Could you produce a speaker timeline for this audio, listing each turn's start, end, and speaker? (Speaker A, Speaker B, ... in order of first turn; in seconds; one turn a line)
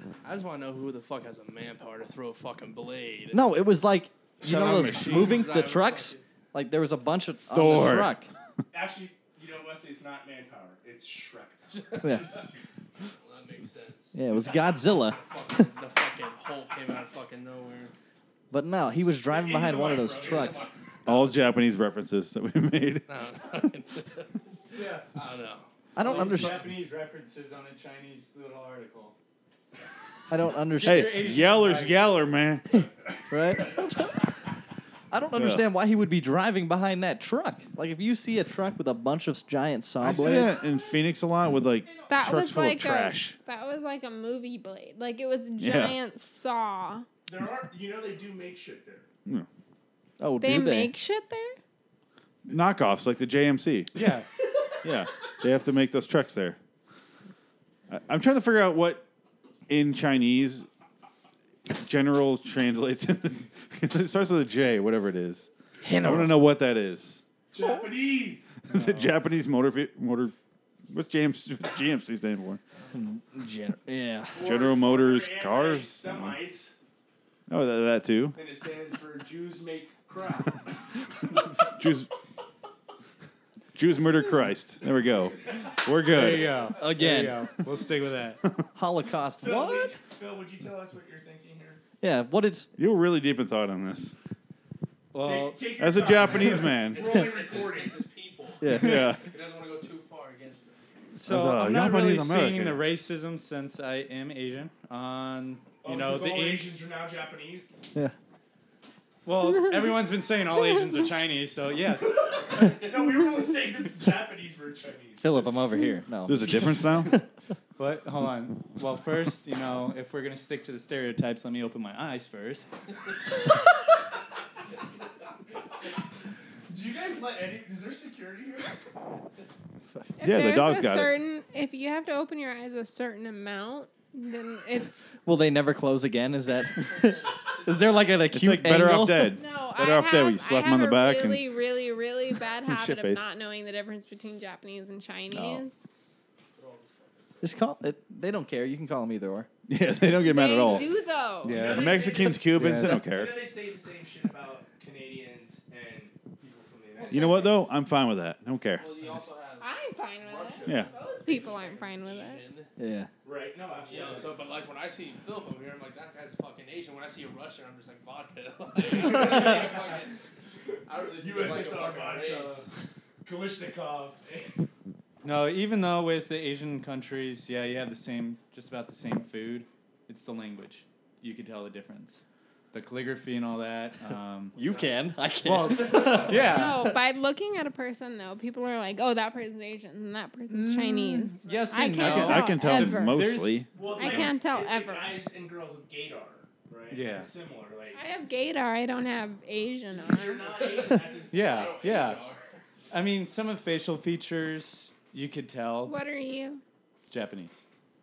Speaker A: 0.2-3.4
Speaker B: 3.3-8.3
Speaker C: 4.4-5.4
Speaker A: 4.8-6.2
Speaker C: 7.5-8.2
Speaker D: 8.7-12.6
Speaker B: 12.0-12.4
Speaker A: 13.0-17.9
Speaker B: 14.2-15.2
Speaker B: 18.5-20.7
Speaker D: 19.3-20.7
Speaker A: 19.5-21.5
Speaker C: 21.1-23.1
Speaker A: 23.1-24.3
Speaker E: 24.7-25.1
Speaker A: 25.1-26.7
Speaker B: 25.9-26.7
Speaker E: 26.0-29.1
Speaker B: 30.3-31.3
Speaker E: 30.7-32.1
Speaker C: 30.8-32.9
Speaker B: 33.3-34.3
Speaker B: 35.1-40.6
Speaker C: 35.3-35.7
Speaker C: 40.0-43.4
Speaker F: 42.1-47.1
Speaker C: 45.6-46.0
Speaker D: 47.3-49.1
Speaker B: 50.2-50.9
Speaker F: 50.4-51.6
Speaker C: 52.5-53.9
Speaker E: 54.0-54.3
Speaker C: 54.8-56.6
Speaker C: 57.9-59.0
Speaker C: 59.7-60.7
Speaker C: 61.7-65.5
Speaker B: 65.8-66.3
Speaker C: 66.0-67.2
Speaker D: 67.5-68.5
Speaker C: 68.7-70.3
Speaker C: 70.9-72.6
Speaker B: 72.9-74.4
Speaker D: 74.3-76.8
Speaker C: 74.4-76.4
Speaker C: 77.5-78.4
Speaker D: 78.3-80.7
Speaker C: 81.6-82.1
Speaker C: 83.8-86.6
Speaker E: 86.0-88.4
Speaker B: 86.7-87.6
Speaker B: 88.8-89.9
Speaker D: 89.4-91.8
Speaker B: 92.0-92.7
Speaker C: 92.8-94.2
Speaker E: 95.1-95.8
Speaker D: 95.2-98.0
Speaker C: 95.8-97.2
Speaker A: 96.7-100.9
Speaker B: 98.6-99.1
Speaker C: 98.7-99.3
Speaker E: 101.1-106.7
Speaker C: 101.2-102.8
Speaker D: 105.8-107.7
Speaker E: 109.2-112.6
Speaker D: 112.5-115.5
Speaker B: 115.2-117.2
Speaker C: 116.3-117.2
Speaker E: 117.8-122.7
Speaker D: 126.7-128.8
Speaker F: 130.2-135.2
Speaker C: 130.2-131.2
Speaker B: 135.2-139.3
Speaker A: 137.0-138.1
Speaker C: 138.3-141.5
Speaker F: 139.2-145.9
Speaker C: 142.7-143.3
Speaker C: 145.3-145.6
Speaker A: 146.6-147.6
Speaker B: 147.4-149.5
Speaker C: 149.7-150.9
Speaker F: 150.2-151.8
Speaker C: 151.5-153.4
Speaker D: 151.5-157.5
Speaker E: 151.5-151.9
Speaker B: 152.6-153.0
Speaker A: 157.0-157.6
Speaker C: 157.1-158.9
Speaker A: 158.8-162.7
Speaker F: 159.6-162.4
Speaker C: 160.7-160.9
Speaker B: 162.8-163.1
Speaker D: 163.2-164.4
Speaker A: 163.8-170.2
Speaker D: 169.0-169.8
Speaker A: 170.9-172.7
Speaker D: 171.2-172.7
Speaker D: 173.2-174.7
Speaker E: 175.2-182.2
Speaker E: 182.7-184.6
Speaker B: 184.6-186.9
Speaker E: 185.4-186.8
Speaker F: 186.4-193.2
Speaker E: 190.5-193.7
Speaker C: 192.0-193.7
Speaker D: 193.7-198.0
Speaker F: 193.9-195.1
Speaker E: 196.9-197.3
Speaker F: 197.9-200.6
Speaker D: 199.9-201.8
Speaker A: 200.6-202.6
Speaker E: 201.3-202.2
Speaker E: 202.9-205.9
Speaker F: 205.8-206.6
Speaker E: 207.1-207.6